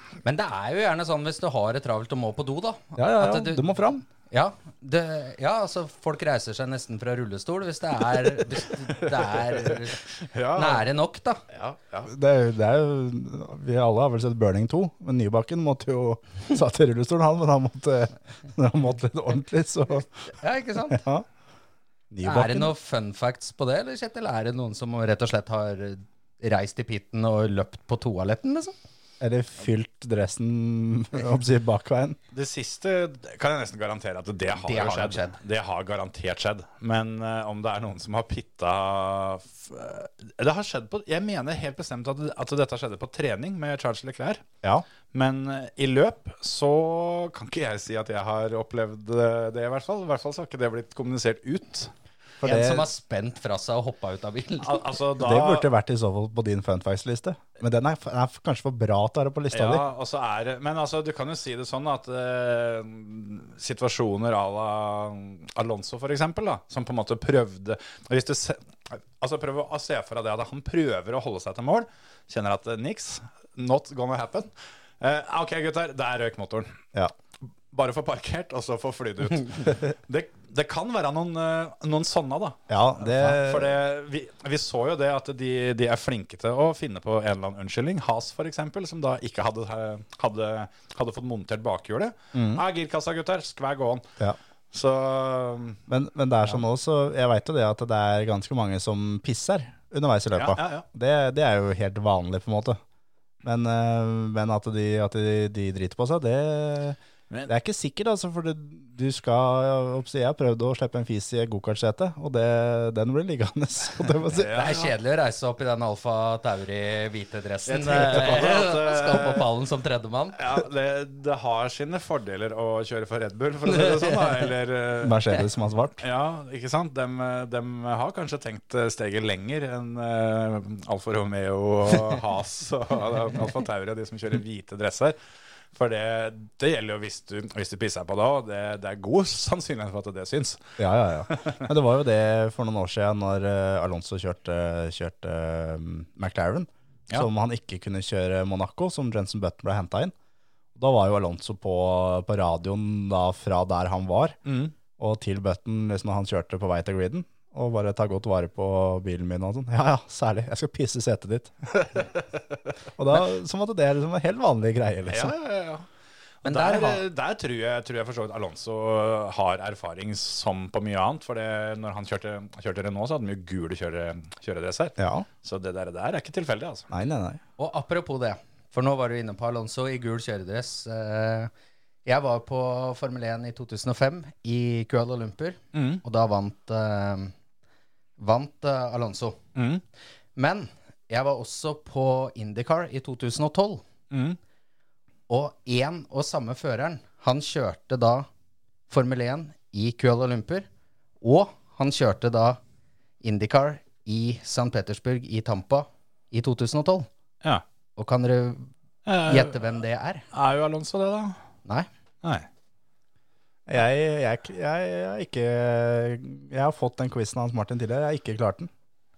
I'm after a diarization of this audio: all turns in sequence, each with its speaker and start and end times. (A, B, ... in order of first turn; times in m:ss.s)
0:00.2-0:03.8 A
0:03.0-0:04.0 B
0:04.3-0:10.0 A
0:09.0-0:10.8 C
0:10.5-0:11.4 A
0:11.5-0:12.1 C
0:12.0-0:20.1 B
0:20.3-0:21.0 A
0:20.9-0:21.2 B
0:22.1-0:22.7 B
0:22.2-0:28.7 A
0:29.2-0:32.2 B
0:32.3-0:44.4 C
0:34.5-0:35.4 A
0:45.1-0:51.9 C
0:52.4-0:52.9 B
0:52.4-0:55.0 A
0:54.6-0:55.7 C
0:55.2-0:59.8 B
0:59.5-1:16.7 C
1:17.7-1:34.0 C
1:22.7-1:23.7 B
1:32.3-1:32.6 B
1:34.7-1:35.8 C
1:35.9-1:42.8 B
1:40.3-1:40.8 C
1:43.4-1:54.5 B
1:54.2-1:54.9 C
1:54.5-2:00.4 A
1:57.6-1:59.5 C
2:00.4-2:05.3 C
2:03.7-2:04.4 A
2:05.0-2:06.0 B
2:06.0-2:15.2 C
2:15.7-2:20.6 C
2:20.8-2:30.1 B
2:21.3-2:21.7 C
2:30.7-2:34.4 B
2:34.4-2:34.7 C
2:35.0-2:42.1 B
2:43.0-2:45.4 B
2:45.0-2:45.8 C
2:46.4-2:47.0 A
2:46.4-2:56.9 C
2:55.0-2:55.3 B
2:56.9-2:57.4 B
2:57.6-3:01.5 A
3:02.0-3:07.3 A
3:05.7-3:06.0 C
3:08.2-3:09.4 A
3:09.6-3:09.8 C
3:10.4-3:13.8 A
3:14.1-3:14.4 C
3:15.3-3:18.3 A
3:18.9-3:20.6 A
3:21.2-3:22.6 A
3:23.2-3:27.1 A
3:28.0-3:28.7 A
3:29.0-3:29.7 C
3:29.2-3:30.2 A
3:30.3-3:31.4 C
3:33.7-3:38.7 B